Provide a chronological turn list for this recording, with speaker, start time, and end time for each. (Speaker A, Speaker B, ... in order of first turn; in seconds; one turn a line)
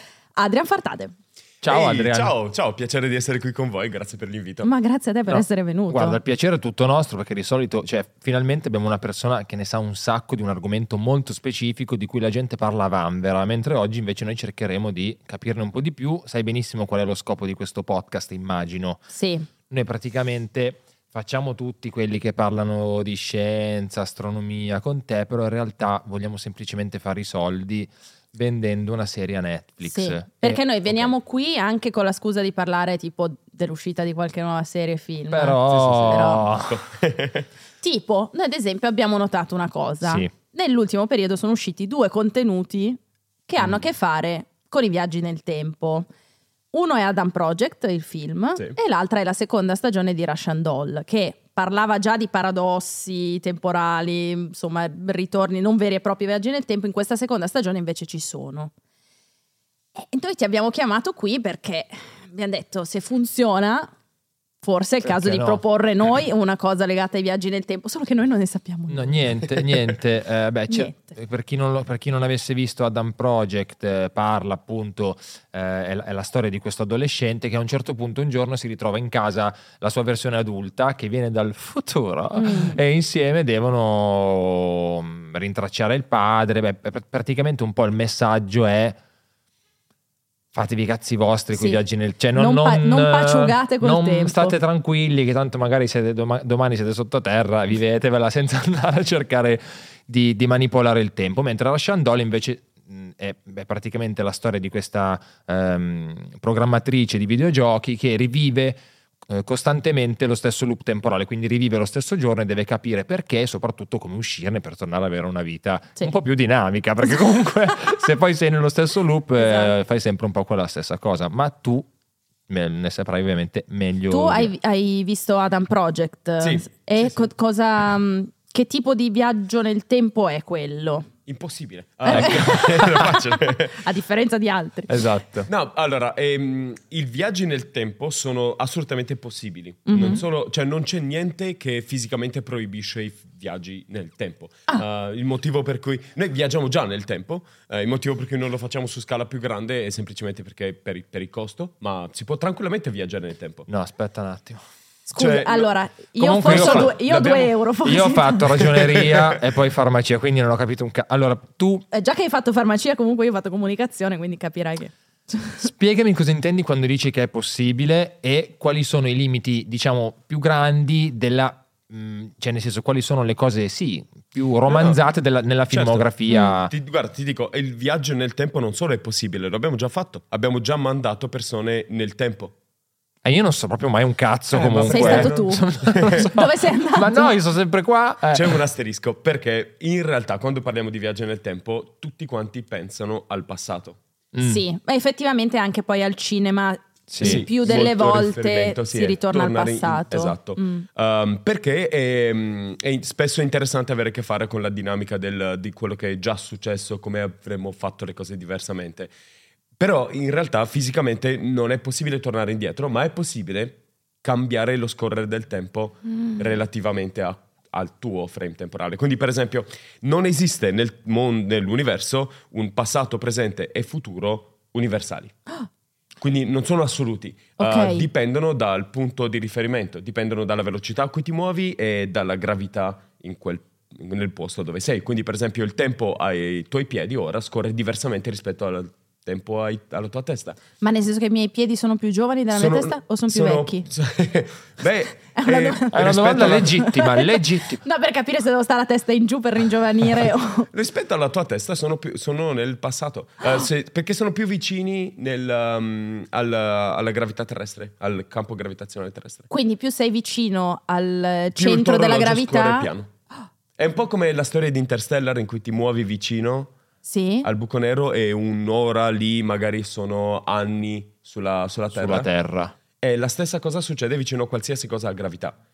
Speaker A: 0.4-1.1
Speaker B: 1.6-2.3
Speaker C: 1.7-4.7
Speaker A: 4.6-6.2
Speaker B: 5.3-19.1
Speaker A: 19.1-19.5
Speaker B: 19.7-31.1
Speaker A: 29.9-36.5
Speaker B: 35.3-36.8
Speaker C: 36.1-37.5
Speaker A: 37.8-46.1
Speaker B: 40.0-40.3
Speaker A: 46.7-58.7
Speaker A: 60.0-63.9
Speaker A: 64.6-69.3
Speaker B: 65.1-65.6
Speaker B: 68.9-89.0
Speaker A: 70.7-71.1
Speaker A: 82.3-82.8
Speaker B: 90.5-121.9
Speaker A: 91.5-91.8
Speaker A: 92.3-94.6
Speaker A: 119.3-119.7
Speaker B: 122.5-124.5
Speaker A: 124.1-131.1
Speaker C: 126.4-127.3
Speaker C: 131.3-133.8
Speaker A: 132.1-133.2
Speaker B: 132.1-133.1
Speaker A: 133.7-135.0
Speaker B: 134.9-135.5
Speaker C: 135.5-153.7
Speaker A: 139.9-140.2
Speaker B: 153.7-154.6
Speaker A: 155.1-158.6
Speaker C: 155.2-155.7
Speaker B: 156.2-161.9
Speaker C: 156.4-157.5
Speaker C: 158.6-159.4
Speaker A: 161.9-165.6
Speaker B: 165.6-176.7
Speaker C: 174.7-175.0
Speaker C: 175.7-182.6
Speaker B: 183.2-188.6
Speaker C: 184.5-186.3
Speaker A: 184.9-187.3
Speaker C: 188.3-194.0
Speaker B: 194.3-194.6
Speaker A: 194.4-200.8
Speaker B: 197.1-197.4
Speaker C: 197.2-209.1
Speaker C: 209.8-225.4
Speaker C: 226.2-240.6
Speaker A: 227.6-228.1
Speaker A: 240.8-243.9
Speaker C: 242.5-246.8
Speaker A: 245.3-246.0
Speaker B: 245.9-247.8
Speaker A: 246.6-250.7
Speaker C: 250.7-259.5
Speaker A: 259.5-262.9
Speaker C: 261.6-263.1
Speaker C: 263.8-266.8
Speaker A: 267.0-267.5
Speaker C: 267.4-272.3
Speaker B: 271.9-272.7
Speaker C: 273.0-275.6